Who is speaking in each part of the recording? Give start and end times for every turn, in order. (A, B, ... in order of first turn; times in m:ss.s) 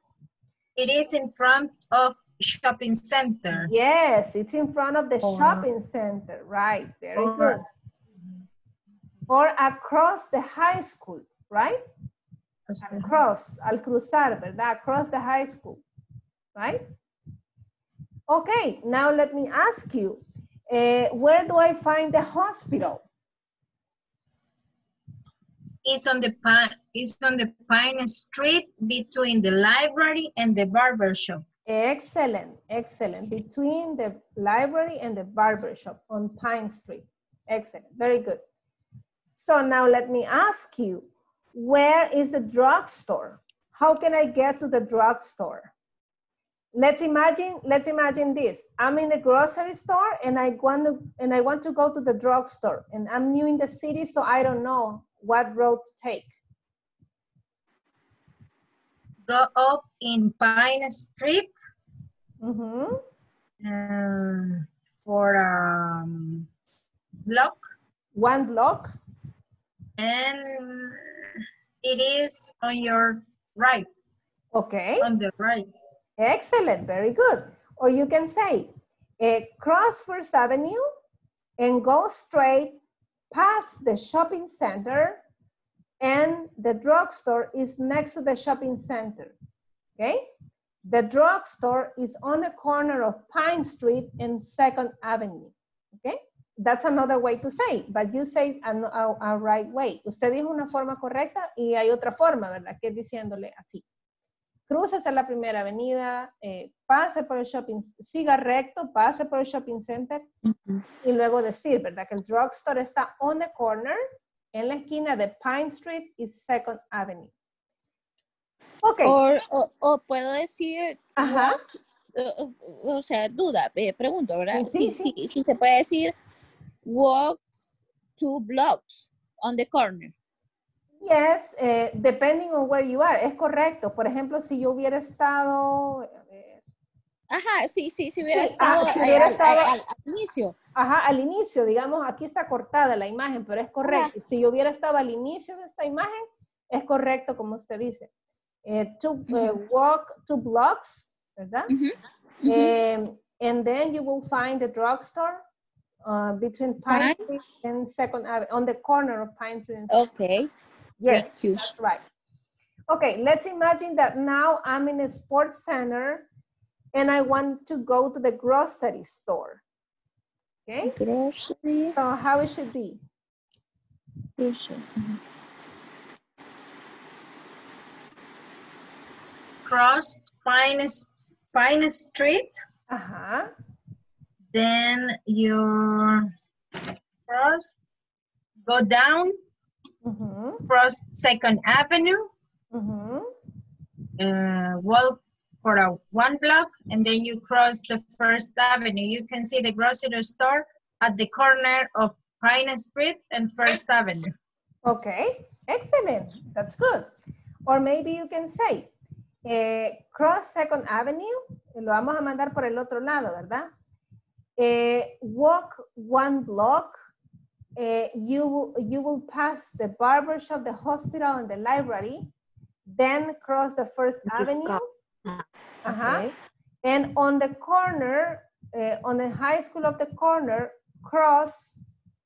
0:00.8-0:03.7 A
0:03.5-0:07.6 B
0:05.2-0:05.6 A
0:07.2-0:07.6 A
0:09.3-0:11.8 B
0:12.7-0:13.1 A
0:12.8-0:15.8 B
0:16.5-0:16.8 B
0:18.3-0:23.0 B
0:25.8-0:31.4 A
0:31.7-0:38.4 B
0:39.4-0:45.7 B
0:46.7-0:56.3 B
0:59.2-1:01.5 A
1:02.4-1:03.0 B
1:03.6-1:06.5 A
1:07.2-1:07.6 A
1:08.1-1:08.9 B
1:10.0-1:11.0 A
1:11.8-1:14.0 A
1:14.5-1:15.1 B
1:15.0-1:15.7 A
1:16.2-1:20.8 B
1:21.6-1:22.8 B
1:23.3-1:25.2 B
1:26.0-1:29.3 B
1:30.0-1:30.3 B
1:30.8-1:43.8 B
1:44.7-1:50.3 B
1:50.5-1:50.8 C
1:51.0-1:54.0 B
1:54.5-1:57.3 B
1:58.8-1:59.2 B
1:59.0-2:01.6 C
2:01.2-2:01.6 B
2:02.1-2:06.1 C
2:04.5-2:05.1 B
2:06.8-2:07.4 C
2:08.2-2:10.1 C
2:11.0-2:16.6 B
2:17.3-2:20.5 C
2:18.2-2:19.7 B
2:20.8-2:28.1 B
2:23.8-2:24.1 C
2:28.6-2:31.7 B
2:29.3-2:29.6 C
2:31.7-2:32.8 C
2:32.4-2:35.4 B
2:36.0-2:40.1 B
2:36.9-2:37.2 C
2:39.9-2:40.5 C
2:41.0-2:42.0 B
2:41.1-2:41.7 C
2:42.9-2:46.3 B
2:46.9-2:49.6 B
2:50.7-2:51.0 B
2:50.8-2:51.9 C
2:51.9-2:53.0 B
2:54.4-2:55.2 C
2:59.6-3:02.6 A
3:02.9-3:03.5 B
3:04.5-3:06.3 A
3:07.3-3:07.8 A
3:08.6-3:09.3 A
3:10.0-3:10.6 B
3:10.7-3:12.3 A
3:12.7-3:13.3 B
3:14.2-3:24.3 A
3:24.8-3:27.1 B
3:27.6-3:28.9 B
3:29.4-3:33.7 B
3:34.6-3:37.0 B
3:37.8-3:42.3 B
3:42.9-3:44.8 B
3:44.4-3:44.8 C
3:45.8-3:46.3 B
3:46.0-3:46.3 C
3:46.8-3:51.8 B